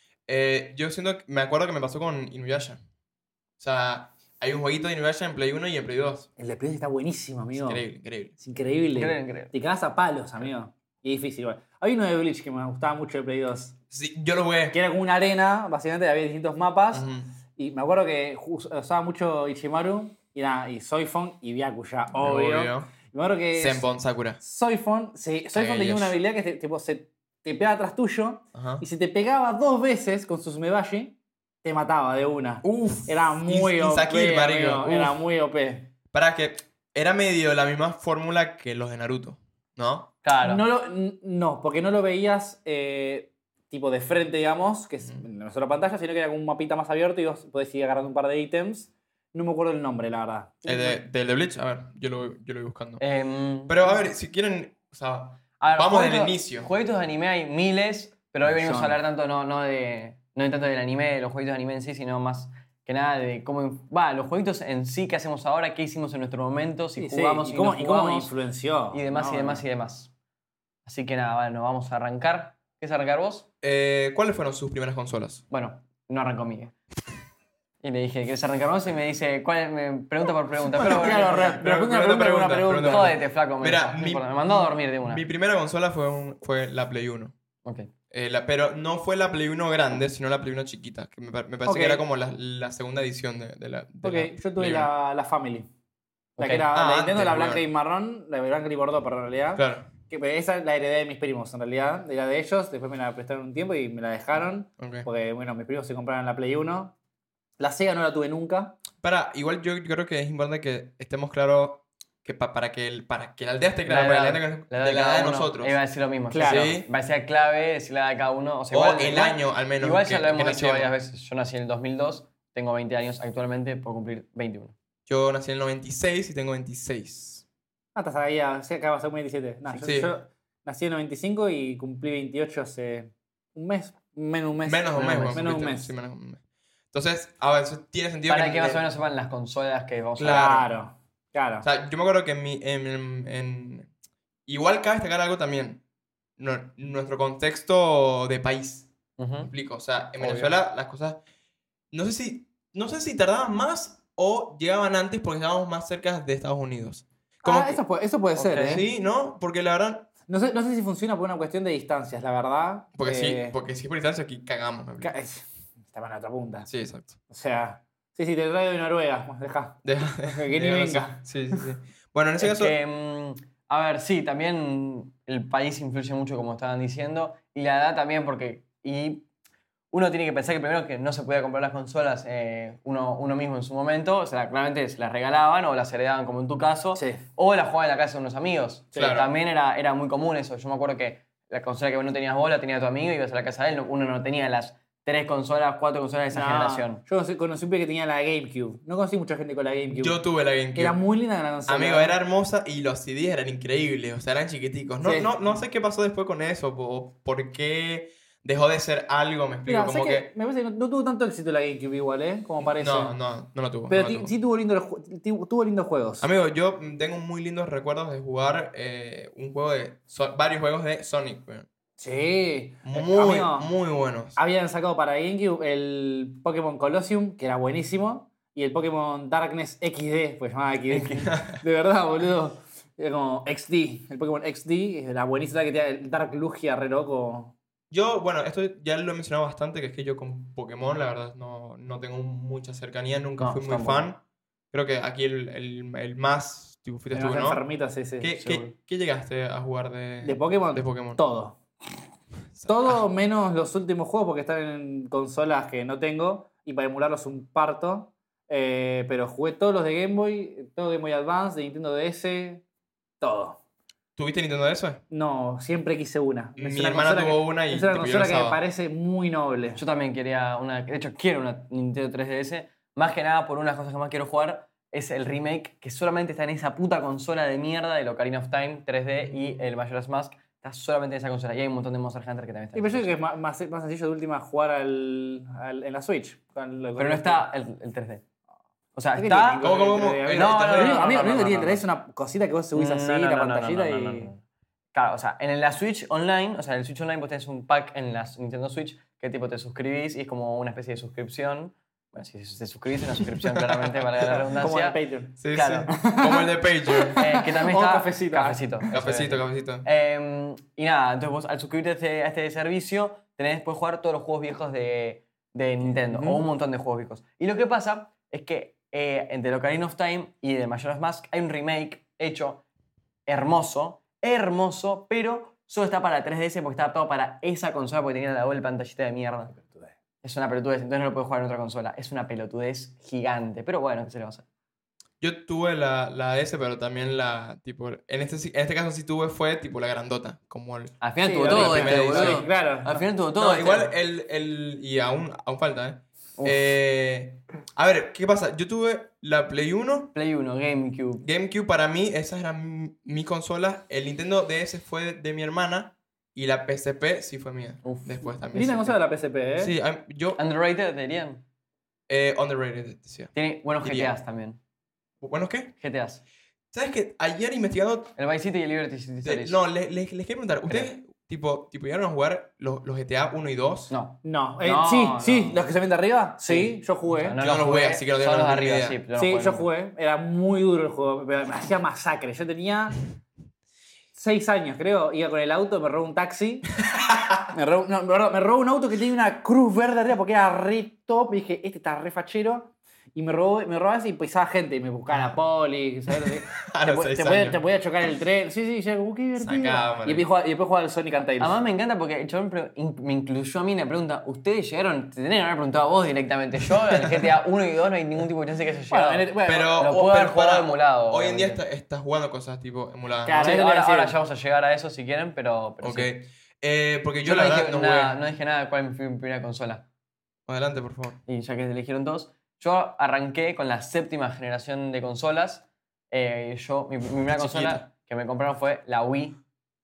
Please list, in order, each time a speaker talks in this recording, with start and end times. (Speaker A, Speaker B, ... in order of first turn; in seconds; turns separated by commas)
Speaker A: 0.3-2.8, Speaker A: 3.6-6.3, Speaker B: 6.4-7.8, Speaker A: 7.5-8.3, Speaker B: 8.4-13.8, Speaker C: 8.9-9.5, Speaker A: 13.9-14.8, Speaker B: 14.7-23.9, Speaker A: 16.9-17.3, Speaker A: 22.1-22.9, Speaker A: 23.6-24.4, Speaker B: 24.4-35.9, Speaker A: 25.5-26.1, Speaker A: 28.5-28.8, Speaker A: 32.6-35.2, Speaker A: 36.1-40.1, Speaker C: 40.2-40.6, Speaker B: 40.4-51.0, Speaker A: 50.7-53.0, Speaker C: 53.0-53.8, Speaker A: 53.7-56.7, Speaker C: 55.6-68.3, Speaker B: 58.4-59.0, Speaker B: 67.0-69.6, Speaker C: 68.9-70.1, Speaker C: 70.9-73.5, Speaker A: 73.6-75.4, Speaker C: 75.5-76.7, Speaker C: 77.8-81.4, Speaker A: 80.7-87.3, Speaker B: 80.8-83.1, Speaker C: 82.8-85.2, Speaker C: 87.6-87.9, Speaker A: 88.1-94.9, Speaker B: 91.6-92.0, Speaker B: 94.0-95.7, Speaker C: 96.4-96.7, Speaker B: 96.4-106.9, Speaker A: 96.7-97.6, Speaker A: 99.5-99.9, Speaker A: 104.8-105.1, Speaker B: 107.6-108.8, Speaker A: 109.0-115.8, Speaker C: 113.9-124.8, Speaker B: 116.3-116.8, Speaker A: 116.5-116.9, Speaker A: 118.7-120.9, Speaker A: 125.1-127.4, Speaker B: 127.9-135.9, Speaker A: 129.8-130.1, Speaker A: 134.6-138.8, Speaker C: 134.9-135.5, Speaker C: 138.3-140.6, Speaker A: 140.2-140.6, Speaker B: 140.3-141.7, Speaker A: 141.6-143.9, Speaker A: 144.5-145.8, Speaker A: 146.4-151.2, Speaker C: 149.2-149.5, Speaker C: 150.2-150.5, Speaker A: 151.9-157.8, Speaker B: 157.4-158.8, Speaker C: 158.3-158.8, Speaker A: 158.6-160.1, Speaker B: 160.3-163.6, Speaker A: 163.0-165.1, Speaker B: 165.0-166.7, Speaker A: 166.7-167.2, Speaker B: 167.3-171.6, Speaker A: 169.8-172.8, Speaker C: 172.4-179.2, Speaker C: 179.9-197.0, Speaker B: 186.9-187.2, Speaker A: 188.9-189.3, Speaker B: 196.3-200.2, Speaker A: 199.9-201.0, Speaker B: 200.7-202.2, Speaker A: 201.7-210.3, Speaker B: 205.0-205.5, Speaker B: 209.7-213.2, Speaker A: 212.8-214.3, Speaker B: 213.9-216.3, Speaker A: 216.2-221.7, Speaker B: 222.0-223.7, Speaker A: 222.8-224.4, Speaker B: 224.4-237.6, Speaker A: 231.0-231.6, Speaker A: 237.9-244.2, Speaker C: 243.4-244.1, Speaker A: 244.7-247.6, Speaker B: 247.1-248.4, Speaker A: 248.2-251.2, Speaker C: 248.4-248.7, Speaker B: 250.2-251.6, Speaker A: 252.5-253.0, Speaker B: 252.7-262.6, Speaker B: 263.2-263.6, Speaker A: 264.2-265.0, Speaker B: 265.1-269.8, Speaker A: 266.6-268.6, Speaker C: 269.8-283.1, Speaker B: 282.7-287.5, Speaker C: 287.0-288.2, Speaker C: 288.9-289.8, Speaker B: 289.1-294.3, Speaker A: 289.6-291.2, Speaker C: 290.2-291.8, Speaker C: 292.8-294.4, Speaker C: 294.9-305.0, Speaker B: 304.6-308.9, Speaker A: 305.4-307.2, Speaker C: 305.5-305.9, Speaker C: 307.2-322.6, Speaker A: 308.9-309.9, Speaker B: 315.9-316.4, Speaker C: 323.3-329.6, Speaker C: 330.2-334.4, Speaker A: 335.2-342.5, Speaker C: 341.0-343.9, Speaker B: 341.2-343.1, Speaker A: 343.4-350.1, Speaker C: 346.4-346.6, Speaker C: 350.1-351.2, Speaker A: 351.2-358.9, Speaker C: 357.8-358.9, Speaker B: 358.5-359.7, Speaker A: 359.6-360.4, Speaker C: 360.4-361.4, Speaker A: 362.1-364.1, Speaker C: 363.3-364.6, Speaker A: 365.2-365.7, Speaker C: 365.8-366.2, Speaker A: 366.7-368.1, Speaker C: 368.2-369.6, Speaker A: 369.2-373.9, Speaker C: 373.9-375.6, Speaker B: 374.2-377.4, Speaker C: 376.5-379.7, Speaker A: 377.4-379.0, Speaker B: 379.2-383.0, Speaker B: 384.1-386.7, Speaker A: 386.9-387.5, Speaker B: 387.5-401.6, Speaker A: 396.2-397.6, Speaker A: 399.4-400.2, Speaker C: 401.4-411.6, Speaker B: 408.9-409.7, Speaker A: 409.4-413.5, Speaker B: 413.2-414.1, Speaker C: 413.4-416.1, Speaker A: 415.8-418.1, Speaker C: 417.2-419.9, Speaker A: 420.5-421.2, Speaker C: 421.3-429.4, Speaker A: 427.3-427.9